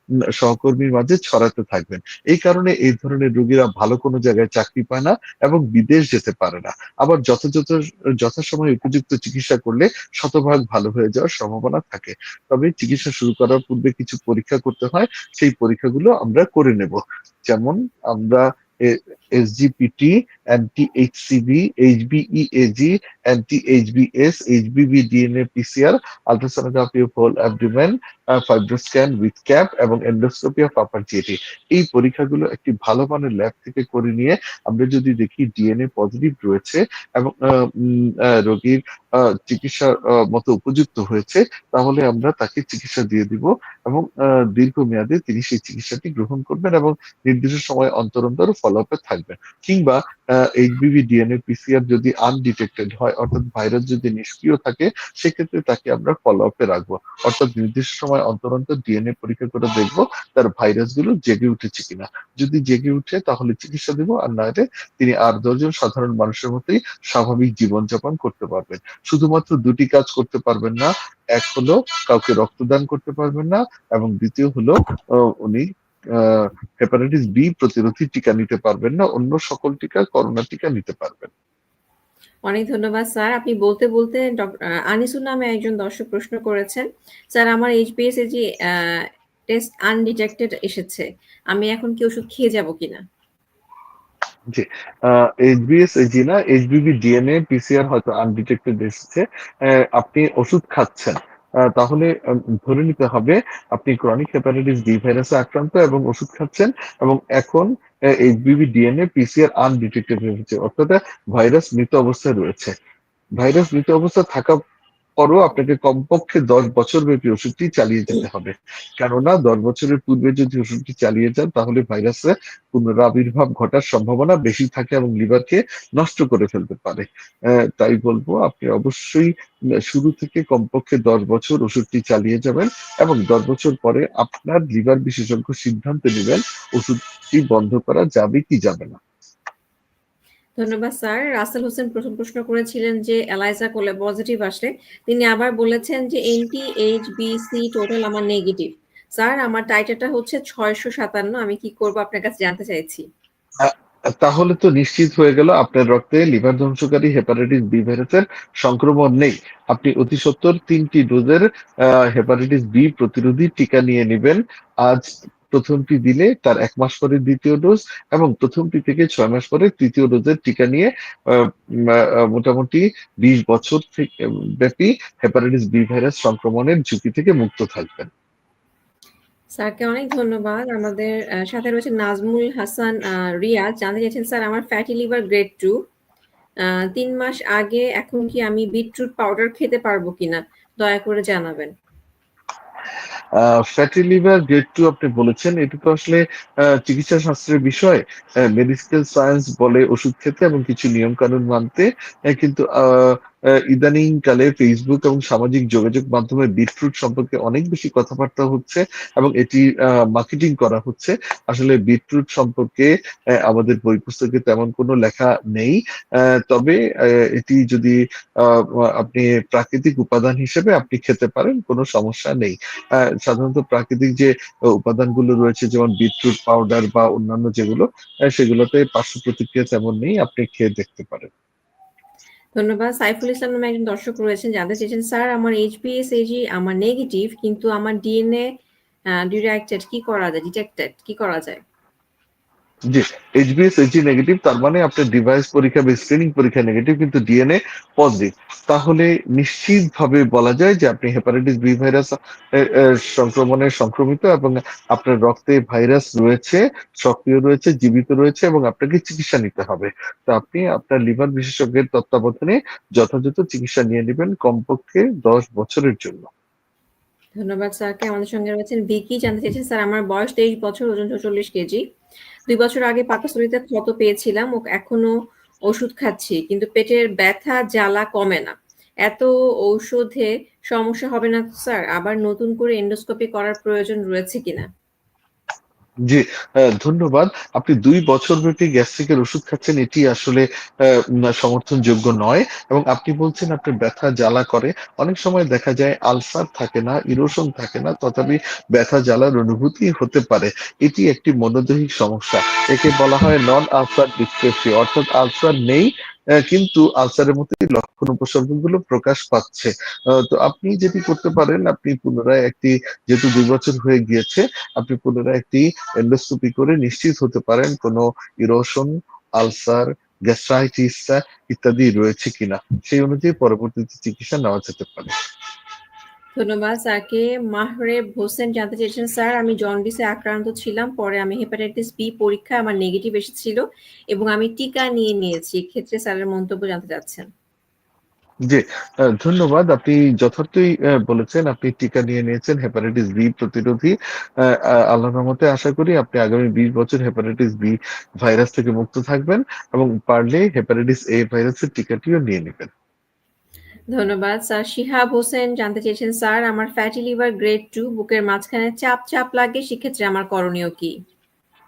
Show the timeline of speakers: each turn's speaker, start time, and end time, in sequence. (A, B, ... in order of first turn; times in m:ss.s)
0:00.4-1:21.3 A
1:22.5-1:33.0 B
1:34.5-1:52.7 A
1:53.4-1:54.6 A
1:55.2-2:09.3 A
2:09.9-2:19.0 A
2:20.6-2:33.1 B
2:33.6-2:58.1 A
2:59.6-3:05.8 B
3:06.6-3:11.7 B
3:13.4-3:51.3 A
3:52.6-3:58.5 B
3:59.2-4:01.6 B
4:02.9-4:26.3 A
4:27.4-4:31.8 B
4:32.5-4:35.1 B
4:35.7-4:38.5 B
4:39.1-4:44.7 B
4:46.1-5:25.1 A
5:26.4-5:37.3 B
5:38.5-5:52.7 A
5:53.9-6:01.0 B